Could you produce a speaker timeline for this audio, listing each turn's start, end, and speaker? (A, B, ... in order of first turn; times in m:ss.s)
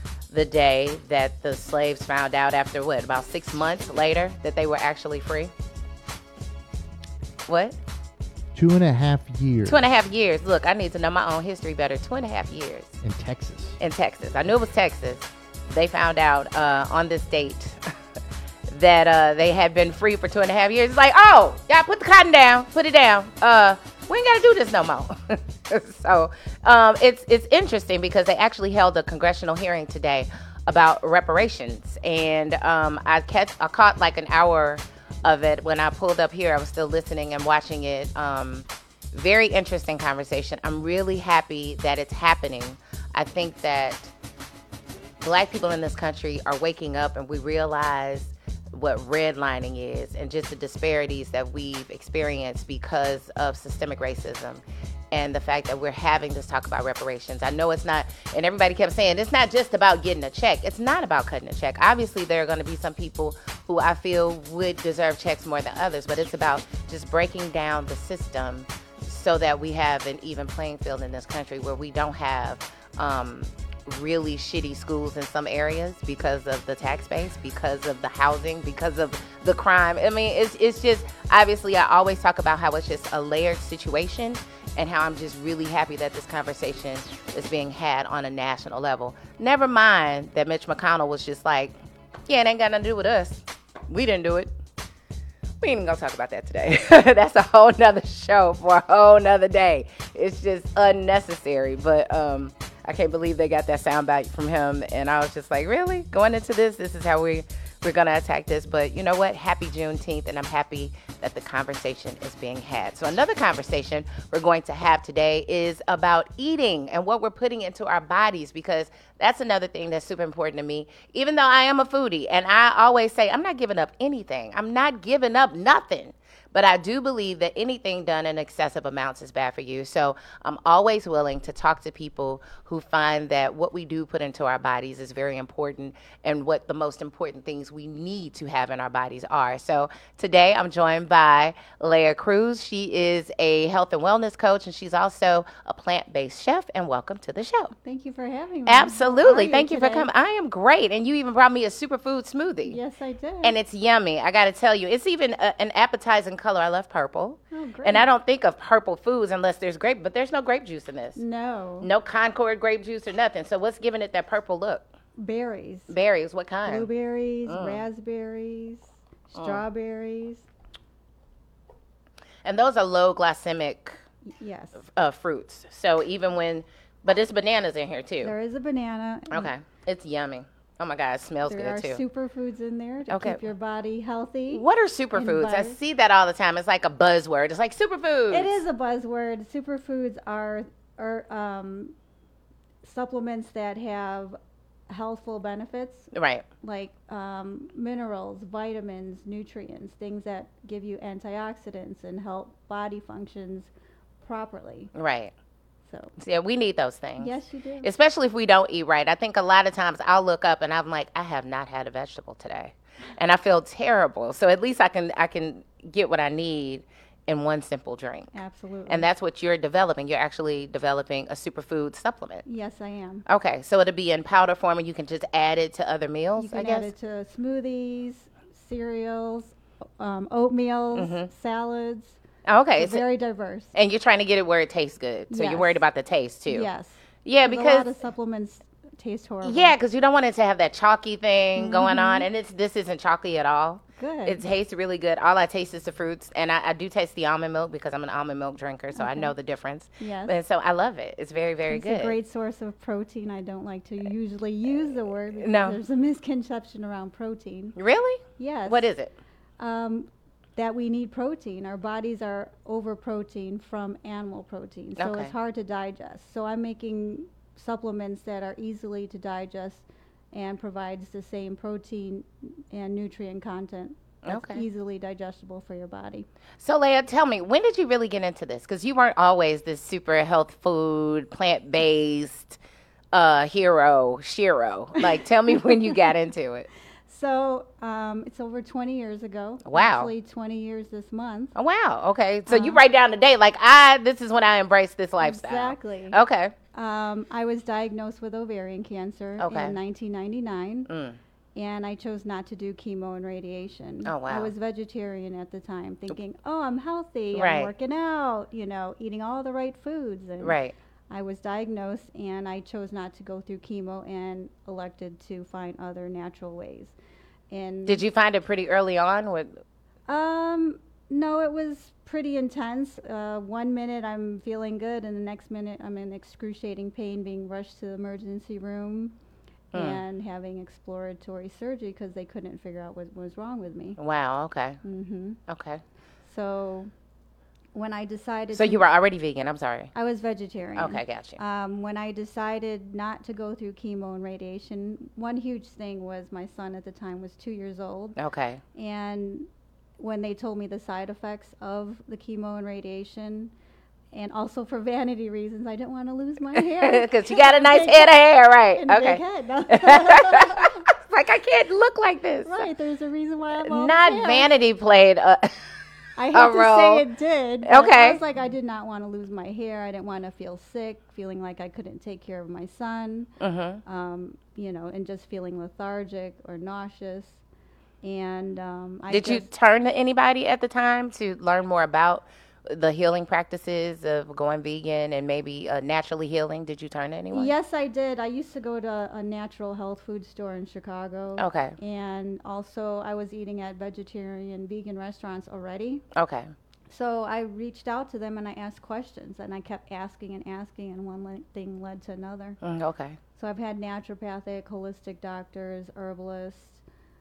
0:00.3-0:05.5 A
0:07.5-0:07.8 A
0:08.5-0:09.8 B
0:09.6-0:13.0 A
0:13.0-0:13.8 B
0:13.8-0:17.8 A
0:18.7-0:44.1 A
0:45.2-1:31.7 A
1:32.3-1:34.5 A
1:35.6-2:27.7 A
2:27.8-2:30.1 C
2:28.7-2:32.8 A
2:32.6-2:33.5 C
2:33.4-2:41.2 A
2:37.5-2:38.1 C
2:41.2-2:41.9 C
2:41.8-2:44.8 A
2:45.2-2:45.9 C
2:45.9-2:46.9 A
2:46.6-2:50.5 C
2:47.5-2:47.8 A
2:49.3-2:49.6 A
2:52.4-2:54.0 A
2:54.3-2:54.8 C
2:54.8-2:58.3 A
2:58.2-2:59.5 C
2:59.3-3:02.0 A
3:01.5-3:04.6 C
3:03.1-3:03.4 A
3:04.5-3:08.6 A
3:05.1-3:05.8 C
3:08.3-3:11.9 C
3:12.8-3:14.4 C
3:14.9-3:16.1 C
3:16.1-3:16.4 A
3:16.6-3:23.7 C
3:24.2-3:24.9 C
3:24.9-3:25.3 A
3:25.9-3:26.2 C
3:26.2-3:38.3 A
3:27.2-3:27.9 C
3:38.3-3:39.1 C
3:38.9-3:42.4 A
3:42.4-3:43.2 C
3:43.3-3:46.9 A
3:46.4-3:52.2 C
3:50.9-3:51.3 A
3:52.4-3:53.0 A
3:52.8-3:53.7 C
3:53.7-3:56.7 A
3:55.3-3:55.8 C
3:56.5-3:59.8 C
3:57.2-3:57.9 A
3:59.4-4:12.2 A
4:01.6-4:02.3 C
4:04.0-4:04.4 C
4:08.9-4:09.3 C
4:10.0-4:10.4 C
4:11.7-4:17.8 C
4:15.4-4:15.8 A
4:17.8-4:19.1 A
4:18.4-4:18.9 C
4:19.6-4:36.2 C
4:25.0-4:25.3 A
4:34.2-4:34.6 A
4:36.6-4:42.6 A
4:43.1-4:46.7 A
4:45.0-4:46.0 C
4:47.1-4:51.5 C
4:49.6-4:50.1 A
4:51.5-4:56.5 A
4:52.5-4:52.8 C
4:55.2-4:56.2 C
4:56.7-5:00.9 C
4:59.4-4:59.8 A
5:00.9-5:01.2 A
5:01.6-5:10.6 C
5:04.0-5:04.5 A
5:07.3-5:07.7 A
5:10.4-5:10.7 A
5:11.1-5:17.0 C
5:17.5-5:18.0 C
5:17.8-5:19.6 A
5:20.1-5:29.1 C
5:29.7-5:34.0 C
5:29.7-5:30.0 A
5:34.0-5:34.8 A
5:34.8-5:35.4 C
5:35.5-5:35.8 A
5:36.2-5:36.9 C
5:37.7-5:38.8 C
5:38.5-5:39.9 A
5:39.9-5:48.2 C
5:40.8-5:41.4 A
5:48.2-5:48.6 A
5:48.7-5:49.5 C
5:50.0-5:53.5 C
5:54.1-6:00.8 C
5:56.5-6:02.7 A
6:02.4-6:04.5 C
6:03.6-6:05.5 A
6:06.2-6:13.3 C
6:06.3-6:07.0 A
6:07.6-6:08.2 A
6:13.4-6:13.8 A
6:13.8-6:17.4 C
6:18.0-6:19.5 C
6:19.1-6:27.5 A
6:27.3-6:36.0 C
6:31.4-6:31.8 A
6:36.2-6:36.5 A
6:36.9-6:42.6 C
6:42.6-6:43.2 A
6:43.4-6:46.8 C